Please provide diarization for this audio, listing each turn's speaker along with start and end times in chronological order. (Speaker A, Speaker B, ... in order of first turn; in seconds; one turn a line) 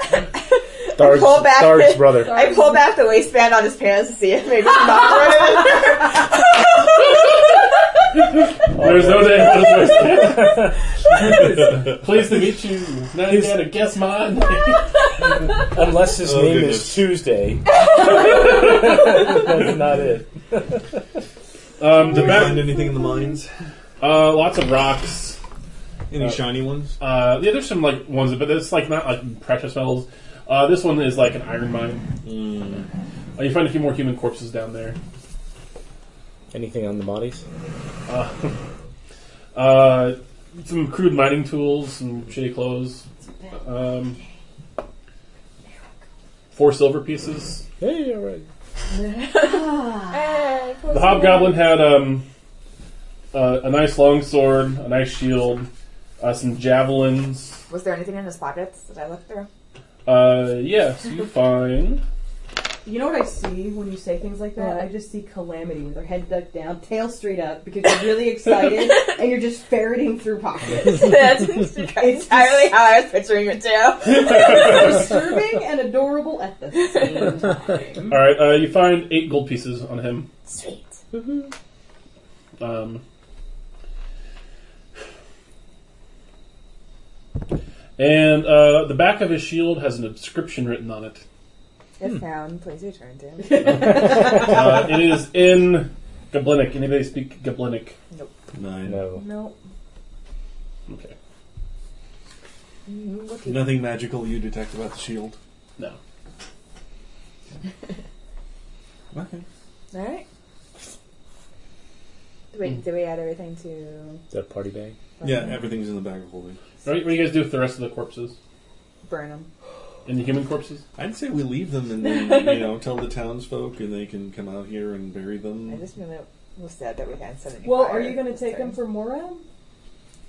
Speaker A: 0.4-7.2
Speaker B: 0.9-2.4
Speaker C: 2.1-2.9
Speaker D: 8.7-14.9
Speaker B: 8.7-11.8
Speaker B: 13.2-13.7
Speaker B: 15.6-17.6
Speaker E: 16.2-17.0
Speaker B: 18.2-20.8
Speaker D: 21.8-22.7
Speaker E: 22.0-23.5
Speaker D: 24.0-25.4
Speaker E: 26.1-26.9
Speaker D: 26.2-26.4
Speaker D: 27.0-32.1
Speaker E: 32.2-32.9
Speaker D: 33.4-35.0
Speaker B: 36.5-37.4
Speaker D: 38.1-38.5
Speaker D: 39.5-43.0
Speaker C: 43.2-43.6
Speaker D: 43.5-44.2
Speaker D: 46.5-47.6
Speaker B: 47.8-48.5
Speaker A: 48.9-51.7
Speaker C: 49.4-50.4
Speaker D: 50.9-52.2
Speaker D: 53.3-55.7
Speaker D: 56.2-57.6
Speaker A: 57.7-59.5
Speaker D: 60.0-62.0
Speaker C: 62.8-71.3
Speaker A: 64.6-64.8
Speaker A: 70.8-74.9
Speaker C: 71.9-72.8
Speaker C: 74.2-78.2
Speaker A: 76.9-77.2
Speaker D: 78.1-80.3
Speaker A: 80.5-80.9
Speaker D: 82.6-83.0
Speaker D: 88.0-91.2
Speaker A: 92.0-93.9
Speaker C: 93.4-94.9
Speaker D: 94.0-98.0
Speaker E: 98.5-99.0
Speaker B: 98.8-99.2
Speaker C: 99.1-99.6
Speaker D: 100.9-101.1
Speaker A: 102.9-103.8
Speaker E: 103.4-105.4
Speaker E: 109.1-109.4
Speaker A: 109.9-110.2
Speaker A: 112.5-114.2
Speaker B: 114.3-114.9
Speaker A: 115.2-115.6
Speaker E: 115.2-116.6
Speaker D: 116.8-118.3
Speaker A: 119.0-119.5
Speaker D: 120.0-120.8
Speaker E: 121.0-125.8
Speaker A: 122.0-122.6
Speaker A: 125.7-128.8
Speaker C: 127.6-129.4